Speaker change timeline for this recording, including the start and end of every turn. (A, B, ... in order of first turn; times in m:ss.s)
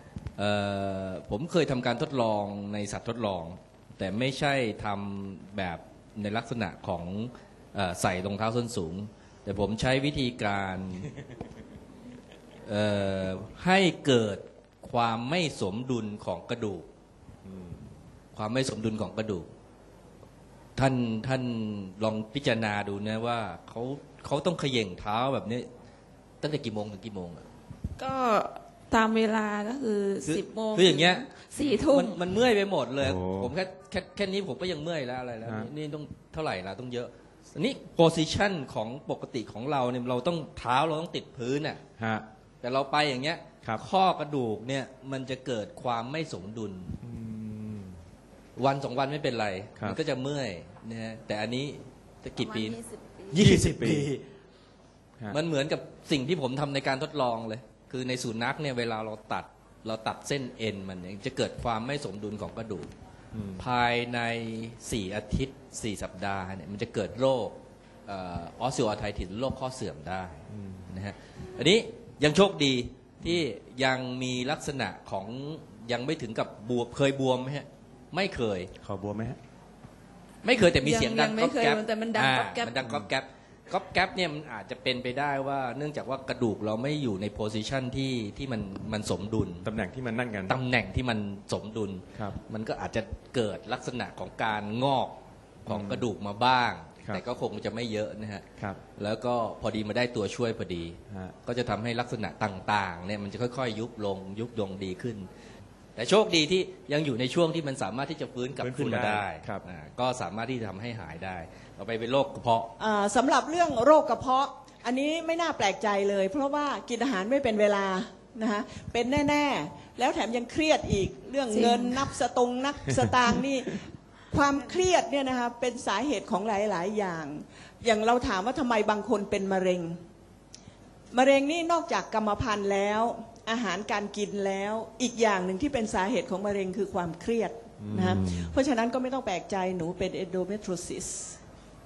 0:00.4-0:11.1 A
0:12.6-0:16.9 A
0:17.4-0:17.9 B
0:18.3-0:19.5 A
0:20.8-0:25.7 A
0:26.4-0:27.4 A
0:28.0-0:32.2 C
0:30.2-0:41.8 A
0:33.0-0:33.5 B
0:35.4-0:35.7 B
0:42.0-0:42.3 B
0:42.6-0:47.0 A
0:47.0-0:48.0 B
0:48.6-0:52.8 A
0:52.4-0:53.6 C
0:53.3-0:54.2 A
0:53.3-0:54.1 B
0:55.3-1:02.9 A
1:03.3-1:03.7 B
1:03.6-1:18.7 A
1:10.5-1:10.9 B
1:18.8-1:19.4 B
1:20.4-1:29.7 A
1:20.5-1:22.8 C
1:29.6-1:30.6 B
1:30.5-1:45.3 A
1:35.7-1:36.1 B
1:41.1-1:41.3 B
1:46.0-1:52.7 A
1:48.6-1:49.6 B
1:52.8-2:10.0 D
2:01.5-2:02.1 C
2:11.1-2:21.4 D
2:17.8-2:18.6 B